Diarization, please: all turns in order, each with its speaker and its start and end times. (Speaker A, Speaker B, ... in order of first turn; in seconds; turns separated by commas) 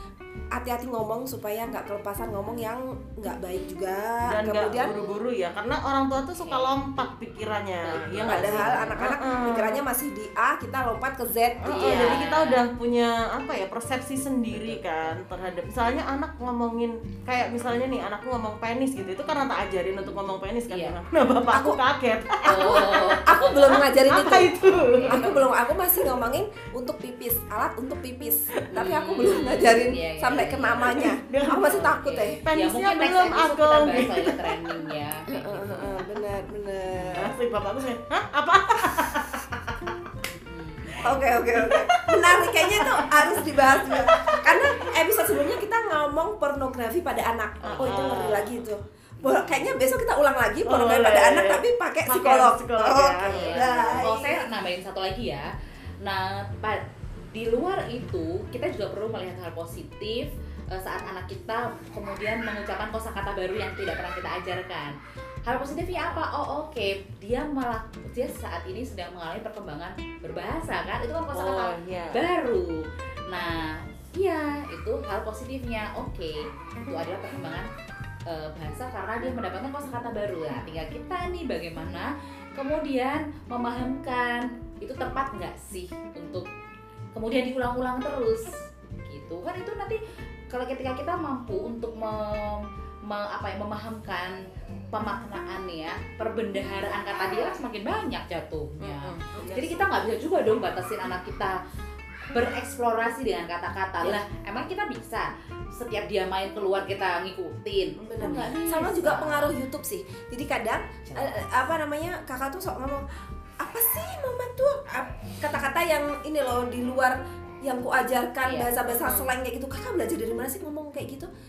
Speaker A: 0.5-5.0, Speaker B: 4.3-9.8, Speaker C: 4.9-5.2, Speaker C: 6.4-7.1, Speaker C: 7.8-9.1, Speaker A: 8.0-12.2, Speaker B: 11.6-26.1, Speaker C: 11.7-12.7, Speaker C: 14.5-15.1, Speaker C: 20.0-21.0, Speaker A: 21.5-21.8, Speaker A: 22.4-32.4, Speaker C: 22.4-23.9, Speaker C: 24.6-25.4, Speaker C: 28.7-36.0, Speaker B: 30.8-34.9, Speaker A: 35.3-37.4, Speaker B: 37.0-39.9, Speaker C: 40.2-41.1, Speaker A: 41.0-54.5, Speaker B: 41.1-45.5, Speaker B: 47.6-48.6, Speaker C: 47.8-48.2, Speaker C: 49.2-49.7, Speaker B: 50.6-54.0, Speaker C: 53.3-55.5, Speaker C: 56.0-64.9, Speaker C: 65.5-77.7, Speaker B: 71.3-72.2, Speaker C: 78.3-86.5, Speaker C: 87.1-90.0, Speaker C: 90.5-94.3, Speaker C: 94.9-101.6, Speaker B: 98.8-99.8, Speaker C: 102.3-109.5, Speaker A: 108.0-113.0, Speaker C: 111.0-111.3, Speaker A: 113.6-121.3, Speaker C: 118.4-119.3